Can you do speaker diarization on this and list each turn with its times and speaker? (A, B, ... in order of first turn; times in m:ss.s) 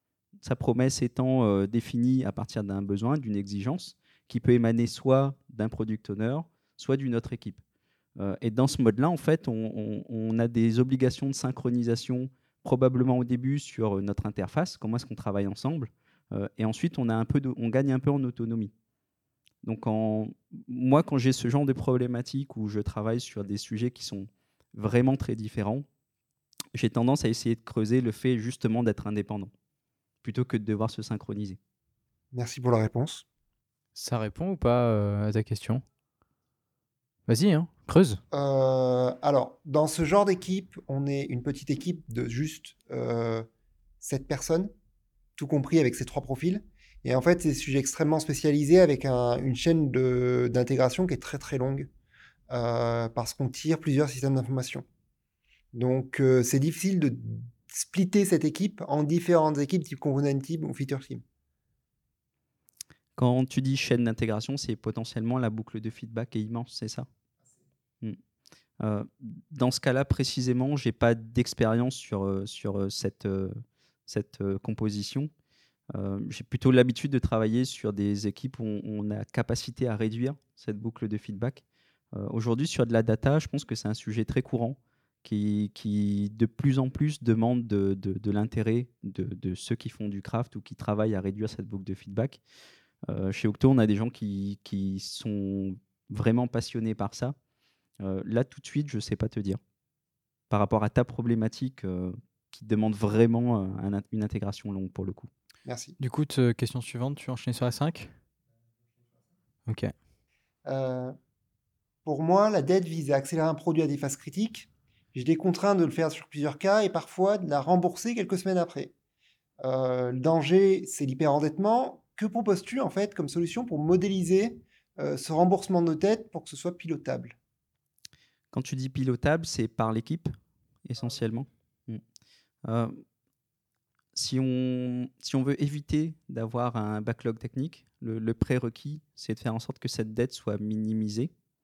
0:00.4-0:07.6 A
0:08.2-0:18.7 A
0:19.6-0:25.8 A
0:26.7-0:29.5 A
0:30.2-0:31.6 A
0:32.3-0:33.2 B
0:33.9-0:35.8 C
0:37.3-0:38.2 C
0:38.3-0:43.5 B
0:44.0-0:44.7 B
0:45.4-0:51.9 B
0:52.5-0:54.8 B
0:55.7-1:01.2 B
1:03.2-1:07.1 A
1:08.8-1:15.3 A
1:15.9-1:32.4 A
1:33.1-1:37.3 A
1:38.0-1:39.6 A
1:40.5-1:45.3 A
1:45.6-1:46.0 B
1:46.0-1:48.1 C
1:49.7-1:49.9 C
1:50.6-1:51.2 B
1:52.0-1:58.9 B
1:59.6-2:07.4 B
2:08.5-2:10.3 A
2:10.8-2:12.0 A
2:12.6-2:13.0 A
2:14.1-2:21.3 A